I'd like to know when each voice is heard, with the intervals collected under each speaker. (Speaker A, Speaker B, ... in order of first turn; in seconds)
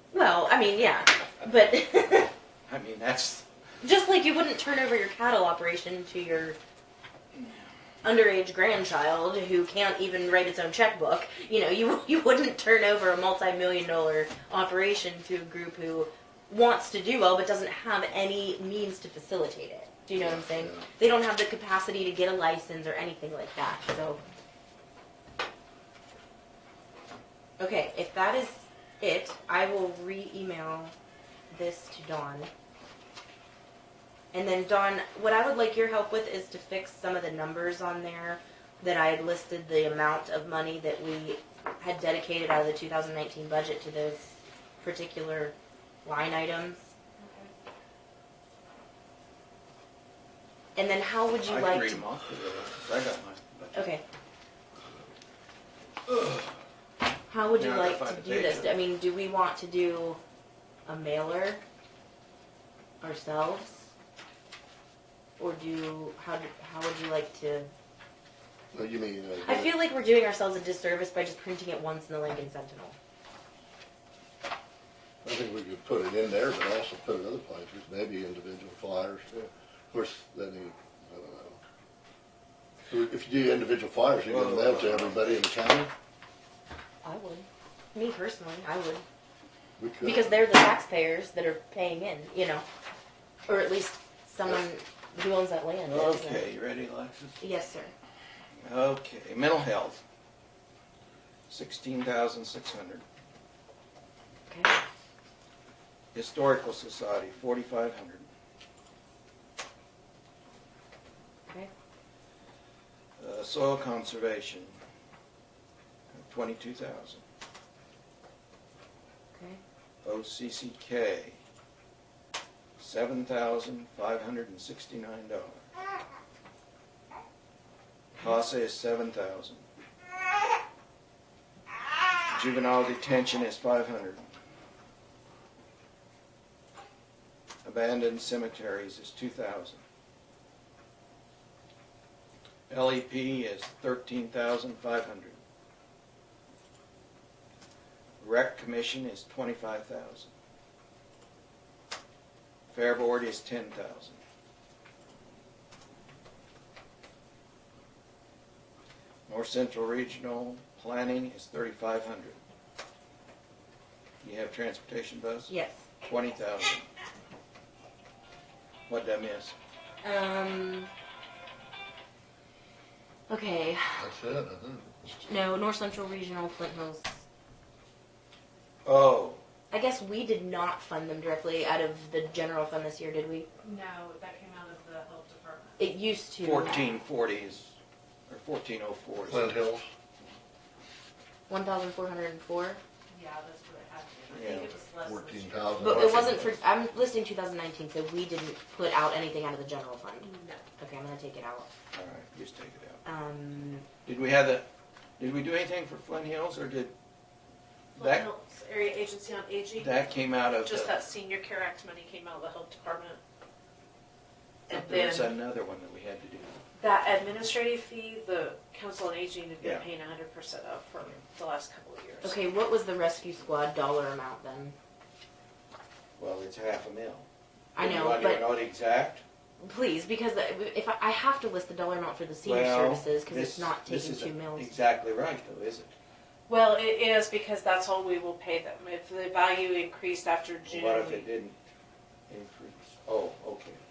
Speaker A: 0.1-2.3, 3.8-6.6, 8.0-24.2, 27.6-30.9, 31.5-32.5, 34.3-45.5, 46.0-46.9, 50.8-52.0, 53.7-54.0, 57.3-60.2, 60.9-61.6, 63.0-63.9, 65.4-67.7, 69.4-73.0, 87.0-89.0, 90.0-92.6, 93.5-96.4, 97.4-97.9, 104.5-104.7, 119.3-119.6, 165.5-166.0, 170.0-170.9, 173.3-174.1, 175.1-177.2, 179.7-183.5, 185.8-187.0, 191.5-192.8, 195.8-201.7, 203.0-203.9, 222.2-224.7, 227.7-228.5, 229.6-234.7
Speaker B: 2.7-3.5, 51.4-53.9, 56.1-56.5, 57.5-58.8, 84.2-85.4, 95.9-97.4, 98.6-100.0, 101.5-103.0, 106.1-108.3, 113.2-114.7, 116.1-117.2, 120.0-121.4, 122.8-125.7, 128.2-129.6, 132.3-134.2, 137.6-139.8, 142.7-145.4, 148.2-150.3, 152.7-154.2, 159.3-162.4, 164.2-166.9, 168.9-169.6, 178.8-179.4, 186.4-187.8, 188.3-189.5, 194.3-194.8, 201.9-203.0, 204.0-204.7, 205.2-206.9, 207.9-208.3, 209.8-210.9, 214.7-216.6, 219.6-219.9, 226.2-229.2, 232.4-235.9, 240.7-241.6, 242.3-243.8
Speaker C: 20.2-20.9, 68.7-69.7, 75.2-81.6, 82.9-85.9, 89.8-90.4, 174.0-174.9, 189.2-189.9, 195.0-196.5
Speaker D: 47.2-47.5, 183.6-185.8, 193.1-195.9, 200.3-200.6, 207.9-210.0, 210.6-213.2, 214.7-215.3, 216.8-222.4, 236.5-241.3